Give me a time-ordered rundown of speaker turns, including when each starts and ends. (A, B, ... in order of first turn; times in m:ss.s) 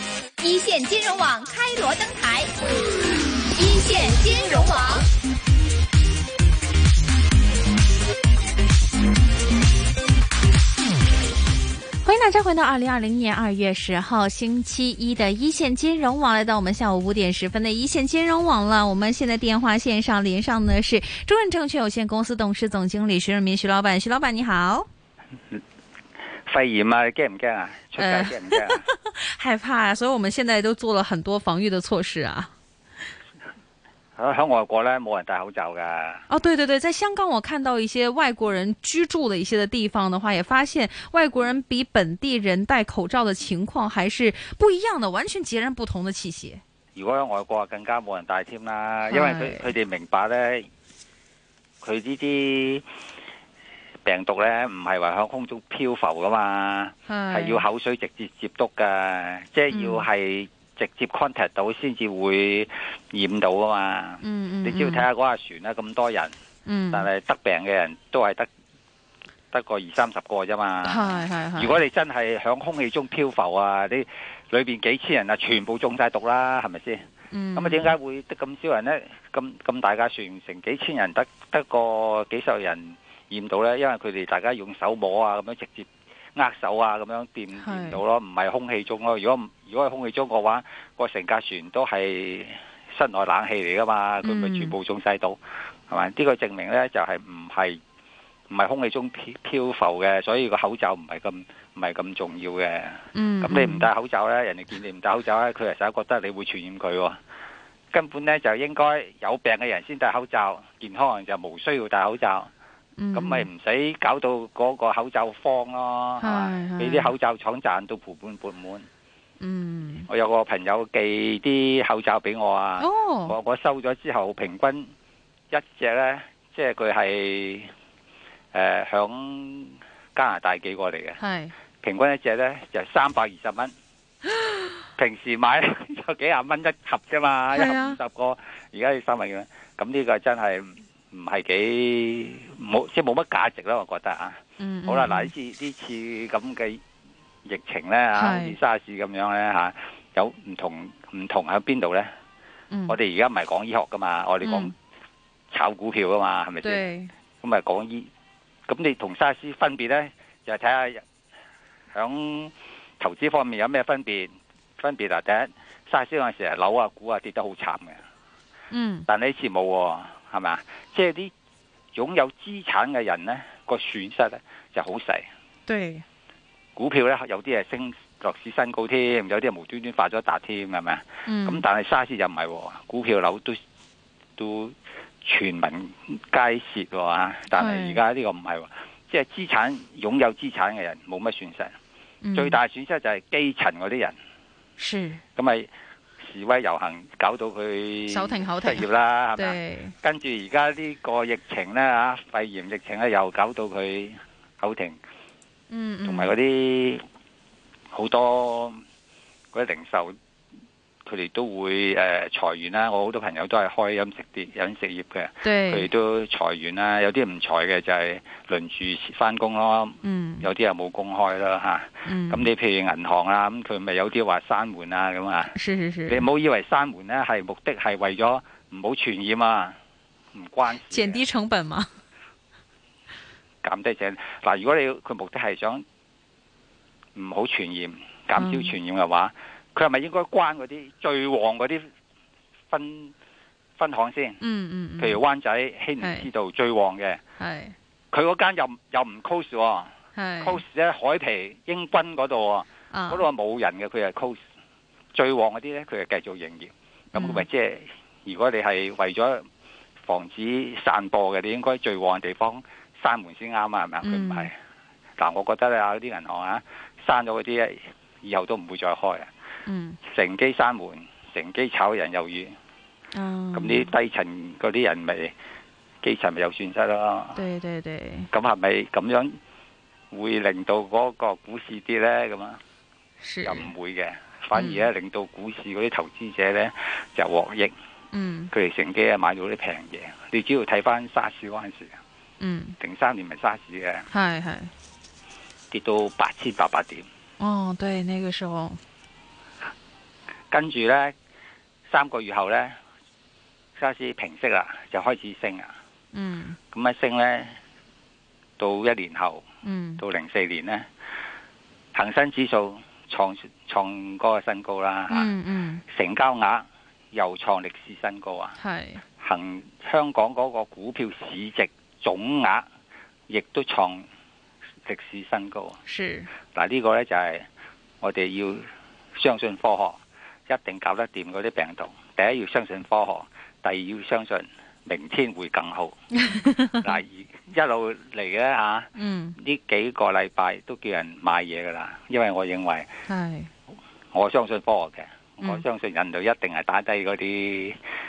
0:00.4-0:02.5 A
0:03.6-0:05.1 A
0:12.0-0:24.9 B
0:26.5-0:28.8 C
0:28.0-0:32.5 B
0:34.2-0:36.2 C
0:36.3-0:46.6 B
0:47.0-0:50.7 C
0:49.1-0:49.7 B
0:51.8-0:52.9 C
0:54.0-1:06.4 C
0:57.1-0:57.7 B
0:59.7-1:00.1 B
1:04.2-1:05.1 B
1:06.7-1:07.1 B
1:06.9-1:08.5 C
1:09.5-1:17.0 C
1:10.8-1:11.8 B
1:17.3-1:17.9 B
1:17.6-1:37.8 C
1:27.6-1:28.0 B
1:34.2-1:34.8 B
1:38.5-1:47.2 C
1:43.1-1:43.9 B
1:47.9-1:52.5 C
1:53.0-1:53.5 B
1:53.1-1:58.9 C
1:56.2-1:57.1 B
1:59.4-2:00.1 B
2:00.1-2:04.9 C
2:02.8-2:03.4 B
2:05.5-2:07.7 C
2:08.5-2:11.2 C
2:11.2-2:11.5 B
2:11.8-2:13.7 C
2:14.9-2:26.8 C
2:17.5-2:18.0 B
2:24.6-2:25.3 B
2:27.5-2:32.1 C
2:28.1-2:28.6 B
2:32.7-2:33.0 B
2:32.9-2:34.7 C
2:34.4-2:34.7 B
2:35.5-2:36.9 C
2:36.6-2:37.1 B
2:37.4-2:38.1 C
2:38.7-2:41.0 C
2:41.9-2:48.0 C
2:48.7-2:49.1 B
2:49.1-2:51.3 C
2:52.0-2:55.3 C
2:55.7-2:56.0 B
2:56.8-3:03.6 C
3:01.3-3:01.6 B
3:04.4-3:11.8 C
3:07.5-3:08.0 B
3:12.2-3:12.6 B
3:12.4-3:14.2 C
3:14.8-3:15.2 B
3:15.4-3:25.0 C
3:18.1-3:19.9 B
3:25.7-3:26.4 B
3:26.0-3:27.0 C
3:27.9-3:28.8 C
3:29.5-3:30.2 C
3:31.1-3:45.6 C
3:35.4-3:35.9 B
3:40.0-3:40.5 B
3:42.1-3:42.5 B
3:45.5-3:46.2 B
3:46.1-3:49.8 C
3:50.3-3:51.2 C
3:50.8-3:51.9 B
3:53.6-3:55.8 C
3:57.2-4:01.9 C
3:58.4-3:58.7 B
4:02.7-4:03.1 C
4:03.8-4:04.4 C
4:04.4-4:05.2 B
4:05.0-4:07.2 C
4:06.0-4:06.3 B
4:07.4-4:07.8 B
4:08.1-4:14.4 C
4:10.2-4:10.6 B
4:12.9-4:13.3 B
4:15.1-4:19.5 C
4:17.1-4:17.5 B
4:20.0-4:24.6 C
4:24.0-4:24.5 B
4:25.2-4:29.3 C
4:29.7-4:30.0 B
4:30.0-4:32.5 C
4:33.1-4:33.9 B
4:33.5-4:35.3 C
4:36.0-4:37.4 C
4:37.4-4:38.3 B
4:38.3-4:39.4 C
4:40.1-4:42.6 C
4:43.2-4:43.7 B
4:43.4-4:47.7 C
4:44.6-4:44.9 B
4:48.1-4:48.5 B
4:48.5-4:52.0 C
4:52.4-4:52.8 B
4:52.8-4:54.1 C
4:54.1-4:54.7 B
4:55.7-4:57.1 C
4:57.4-4:58.8 B
5:00.5-5:01.2 C
5:01.9-5:02.8 C
5:03.8-5:05.8 C
5:06.1-5:06.6 B
5:06.7-5:07.6 C
5:08.6-5:09.4 C
5:09.6-5:10.0 B
5:10.0-5:10.9 C
5:11.9-5:15.3 C
5:15.1-5:15.8 B
5:15.9-5:18.6 C
5:18.6-5:19.0 B
5:19.2-5:22.7 C
5:23.3-5:24.1 C
5:24.9-5:25.8 C
5:25.8-5:26.3 B
5:26.5-5:27.5 C
5:28.0-5:36.0 C
5:36.2-5:36.9 B
5:36.8-5:42.9 C
5:39.0-5:39.4 B
5:43.1-5:43.5 B
5:44.1-5:47.8 C
5:45.4-5:45.6 B